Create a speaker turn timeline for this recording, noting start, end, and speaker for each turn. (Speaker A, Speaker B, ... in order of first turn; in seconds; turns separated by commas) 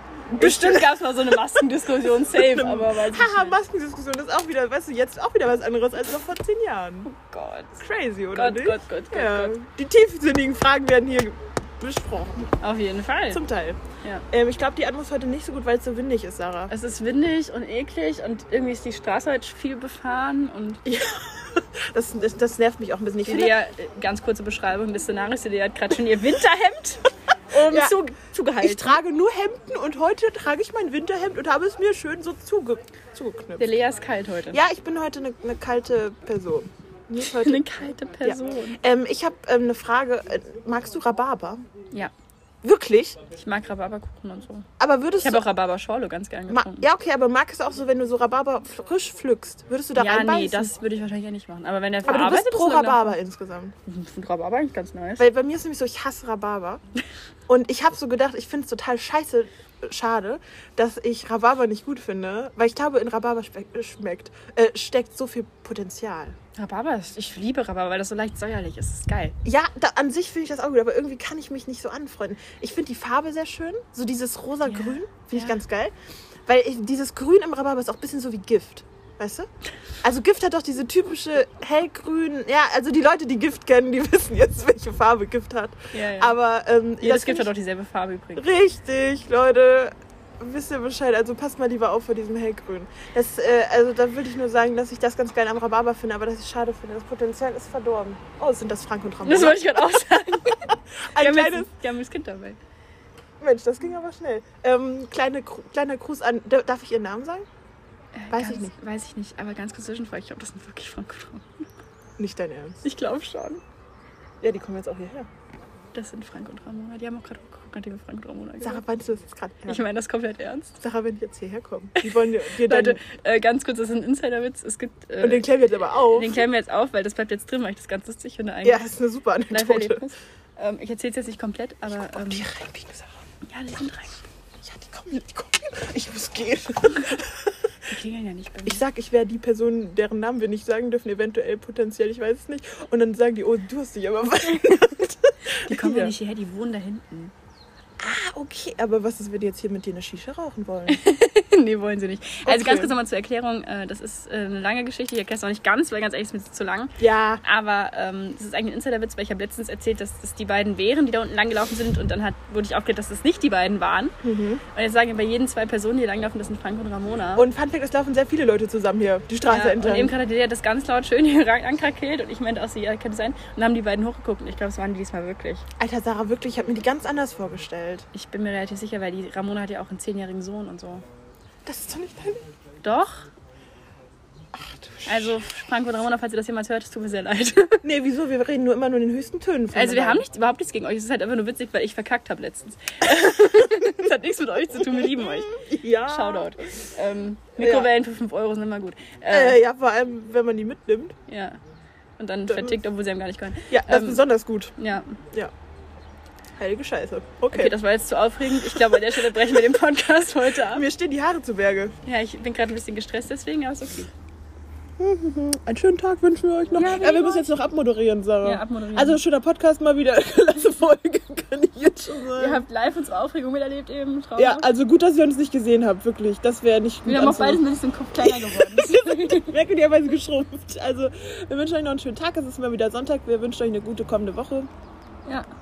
Speaker A: 0.3-3.6, Speaker B: 0.4-1.2, Speaker B: 2.2-7.1, Speaker A: 7.1-7.8, Speaker B: 7.8-12.5, Speaker A: 8.3-9.6, Speaker A: 12.6-13.4, Speaker B: 13.3-16.7, Speaker A: 16.7-20.8, Speaker B: 20.9-23.6, Speaker A: 23.2-29.0, Speaker B: 27.6-28.0, Speaker B: 28.6-33.6, Speaker A: 33.6-34.6, Speaker B: 34.5-41.6, Speaker A: 37.2-38.8, Speaker B: 42.6-43.2, Speaker A: 43.4-44.7, Speaker B: 44.8-45.4, Speaker A: 45.2-46.9, Speaker B: 46.5-50.7, Speaker A: 50.0-53.2, Speaker B: 52.0-53.7, Speaker A: 53.9-55.2, Speaker B: 55.2-56.8, Speaker B: 57.5-66.4, Speaker A: 66.6-69.4, Speaker B: 69.5-75.9, Speaker A: 74.7-75.6, Speaker B: 76.5-79.5, Speaker B: 80.0-87.5, Speaker A: 85.9-86.4, Speaker A: 87.0-88.5, Speaker B: 88.4-100.0, Speaker A: 99.2-102.6, Speaker B: 101.1-101.7, Speaker B: 103.4-107.5, Speaker A: 108.2-111.5, Speaker B: 108.3-108.7, Speaker B: 112.2-112.8, Speaker A: 112.8-113.6, Speaker B: 114.4-115.3, Speaker A: 115.9-118.8, Speaker B: 118.6-119.9, Speaker A: 119.7-120.8, Speaker B: 120.8-123.0, Speaker A: 122.0-125.5, Speaker B: 125.2-126.5, Speaker A: 126.1-128.9, Speaker B: 128.6-130.0, Speaker A: 129.5-132.5, Speaker B: 132.0-133.1, Speaker A: 133.5-134.2, Speaker B: 134.6-137.7, Speaker A: 137.9-138.8, Speaker B: 138.7-146.2, Speaker A: 145.7-147.3, Speaker B: 148.0-151.0, Speaker A: 150.9-164.2, Speaker B: 152.4-152.9, Speaker B: 157.0-157.4, Speaker B: 164.2-164.6, Speaker A: 164.8-167.5, Speaker B: 167.4-170.2, Speaker A: 169.4-175.7, Speaker B: 175.8-178.1, Speaker A: 178.1-181.0, Speaker B: 181.7-182.4, Speaker A: 182.8-183.3, Speaker B: 184.6-185.4, Speaker A: 185.1-187.8, Speaker B: 187.8-190.2, Speaker A: 189.7-199.6, Speaker B: 194.8-196.5, Speaker B: 197.6-197.9, Speaker B: 199.3-201.2, Speaker A: 201.3-201.6, Speaker A: 202.2-204.3, Speaker B: 203.7-204.8, Speaker A: 204.8-205.2, Speaker B: 206.6-207.8, Speaker A: 207.5-210.9, Speaker B: 210.7-212.0, Speaker A: 212.1-214.1, Speaker B: 215.0-222.6, Speaker A: 216.7-217.5, Speaker A: 218.4-219.2, Speaker A: 222.3-224.7, Speaker B: 224.4-227.6, Speaker A: 227.1-229.5, Speaker B: 228.2-234.7